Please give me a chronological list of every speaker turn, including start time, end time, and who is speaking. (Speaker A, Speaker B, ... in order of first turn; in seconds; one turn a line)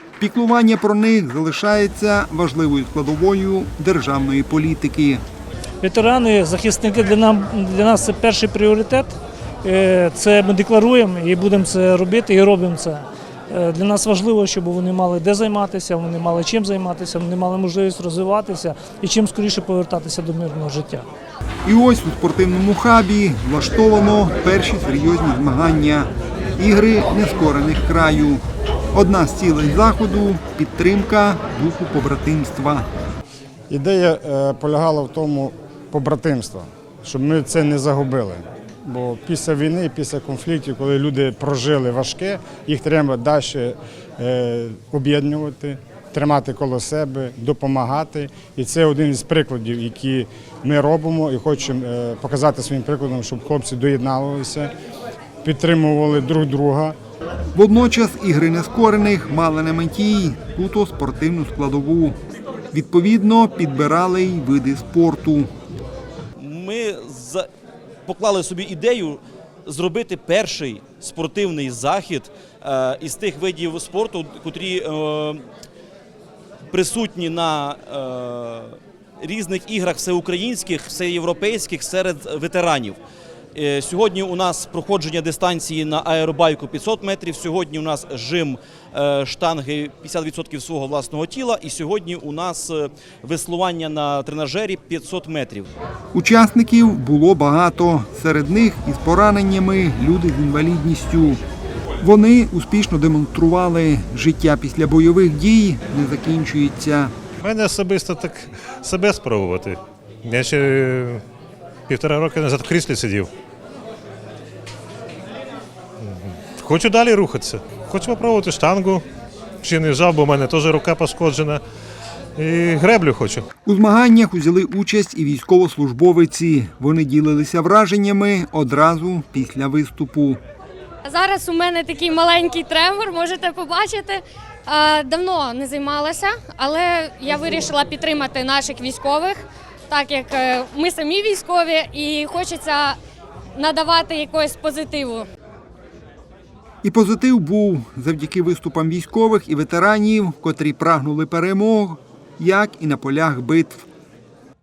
Speaker A: 0.2-5.2
Speaker B: 5.8-21.1
Speaker A: 21.7-28.4
Speaker A: 28.9-32.9
Speaker C: 33.7-54.7
Speaker C: 55.4-57.0
Speaker A: 57.5-62.2
Speaker A: 62.7-65.5
Speaker D: 66.4-67.5
Speaker D: 68.1-75.4
Speaker D: 76.7-83.0
Speaker D: 83.5-95.7
Speaker A: 96.1-101.4
Speaker A: 102.0-107.1
Speaker E: 107.4-111.2
Speaker E: 111.9-113.3
Speaker E: 116.0-119.0
Speaker E: 119.6-121.6
Speaker E: 122.3-123.4
Speaker A: 123.7-130.4
Speaker F: 131.0-143.0
Speaker F: 143.5-145.3
Speaker A: 146.8-153.9